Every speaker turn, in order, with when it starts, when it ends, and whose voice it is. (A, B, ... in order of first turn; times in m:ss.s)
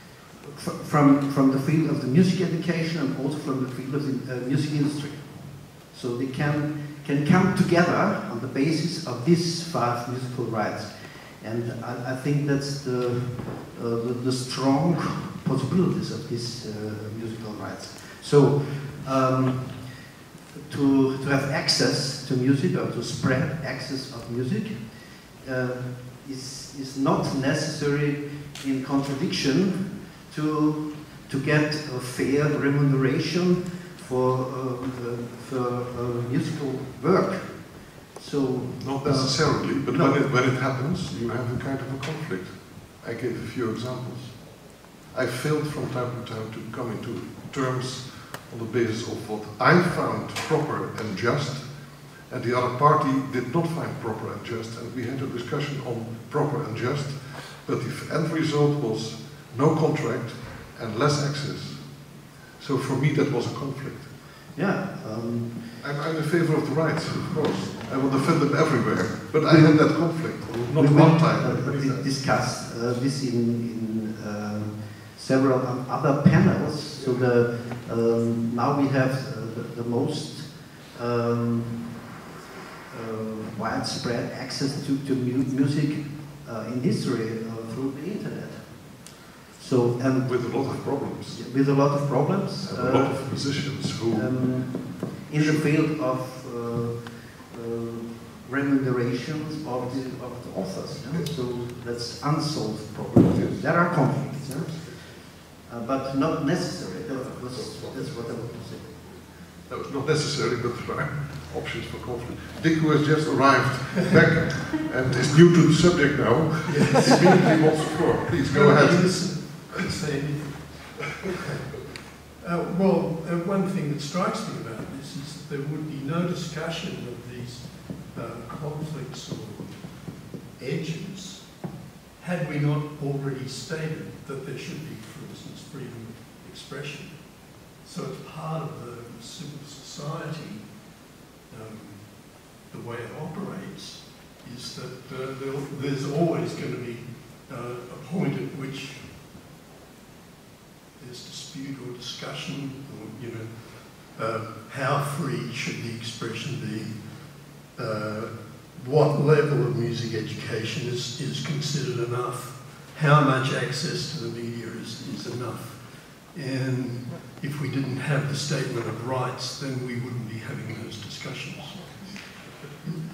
0:00.4-0:20.1 A
0:20.6-0:40.7 A
0:38.8-1:04.2 B
1:04.5-1:05.9 A
1:05.8-1:12.5 B
1:07.3-1:07.7 A
1:09.4-1:22.1 A
1:16.9-1:17.4 B
1:22.9-1:49.2 A
1:30.2-1:31.5 B
1:32.6-1:35.7 B
1:39.8-1:40.4 B
1:41.0-1:41.5 B
1:43.1-1:45.2 B
1:47.1-1:59.7 B
1:56.6-1:57.5 C
1:58.3-2:01.8 C
2:02.4-2:21.0 C
2:21.5-2:29.3 C
2:31.0-2:52.2 C